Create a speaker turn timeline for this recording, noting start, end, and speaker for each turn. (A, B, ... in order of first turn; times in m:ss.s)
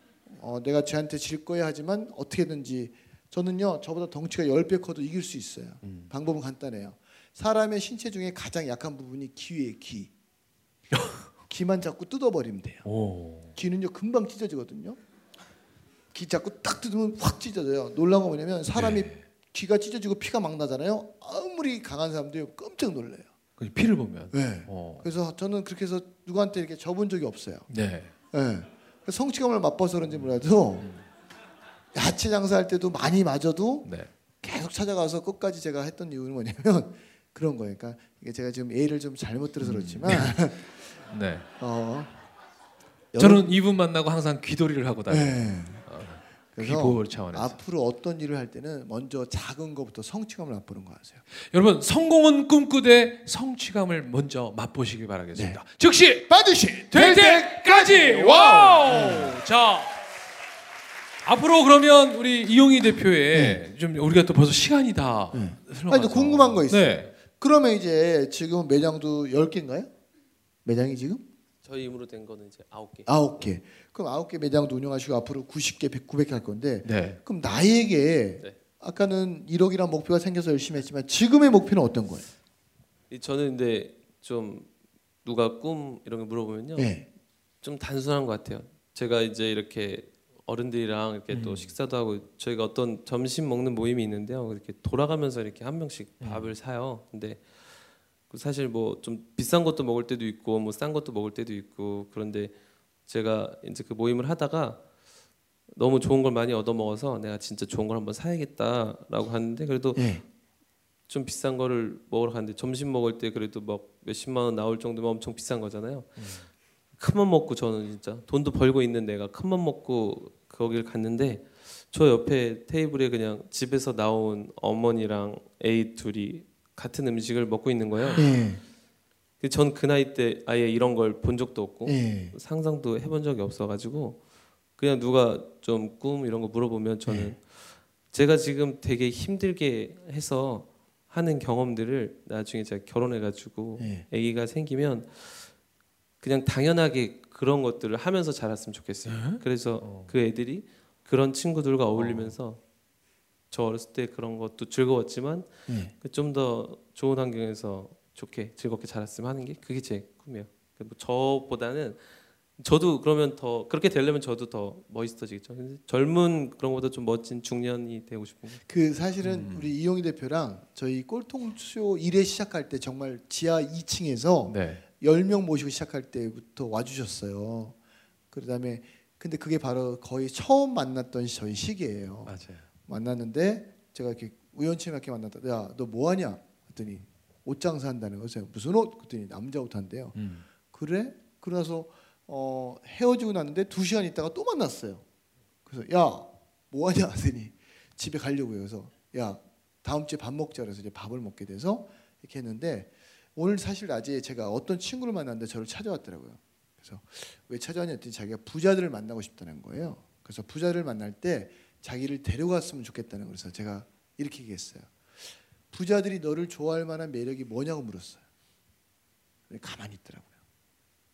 0:00.3-0:10.1 A
0:05.8-0:06.1 B
0:11.5-0:12.8 A
0:12.8-0:13.5 B
0:13.5-0:15.0 A
0:16.1-0:23.3 A
0:18.7-0:19.2 B
0:23.6-0:25.0 B
0:24.3-0:27.7 A
0:27.7-0:28.1 B
0:28.3-0:30.9 A
0:31.9-0:33.9 A
0:33.8-0:34.1 B
0:34.4-0:40.7 A
0:39.6-0:40.4 B
0:41.1-0:41.4 B
0:41.6-0:42.2 A
0:43.1-0:43.5 A
0:43.2-0:47.6 B
0:45.1-0:45.9 A
0:46.5-0:51.2 A
0:51.4-0:59.9 B
0:55.3-0:55.6 A
0:56.3-0:59.4 A
1:01.2-1:07.1 B
1:03.3-1:03.6 A
1:05.3-1:09.9 A
1:10.6-1:11.2 A
1:11.6-1:13.1 C
1:13.0-1:22.3 A
1:16.8-1:17.2 B
1:23.1-1:24.7 C
1:25.2-1:27.0 C
1:26.8-1:27.0 A
1:27.6-1:37.6 C
1:31.3-1:31.7 B
1:36.2-1:36.5 B
1:38.3-1:42.5 C
1:43.0-1:44.8 C
1:45.7-1:50.1 C
1:50.0-1:50.2 A
1:51.1-1:56.3 C
1:56.2-1:56.4 B
1:57.0-2:08.2 C
2:08.2-2:08.6 A
2:09.4-2:14.2 C
2:11.8-2:12.3 A
2:14.8-2:25.5 C
2:17.1-2:17.4 A
2:23.8-2:24.0 A
2:26.2-2:32.6 C
2:29.1-2:30.1 B
2:31.9-2:32.3 B
2:33.5-2:42.1 C
2:35.7-2:35.9 A
2:42.6-2:48.6 C
2:48.7-2:57.7 A
2:49.2-2:49.7 B
2:54.4-2:54.8 B
2:58.3-3:02.3 A
3:02.3-3:02.6 B
3:02.9-3:10.2 A
3:10.1-3:10.4 B
3:10.7-3:15.0 A
3:15.6-3:38.2 A
3:39.5-3:40.3 A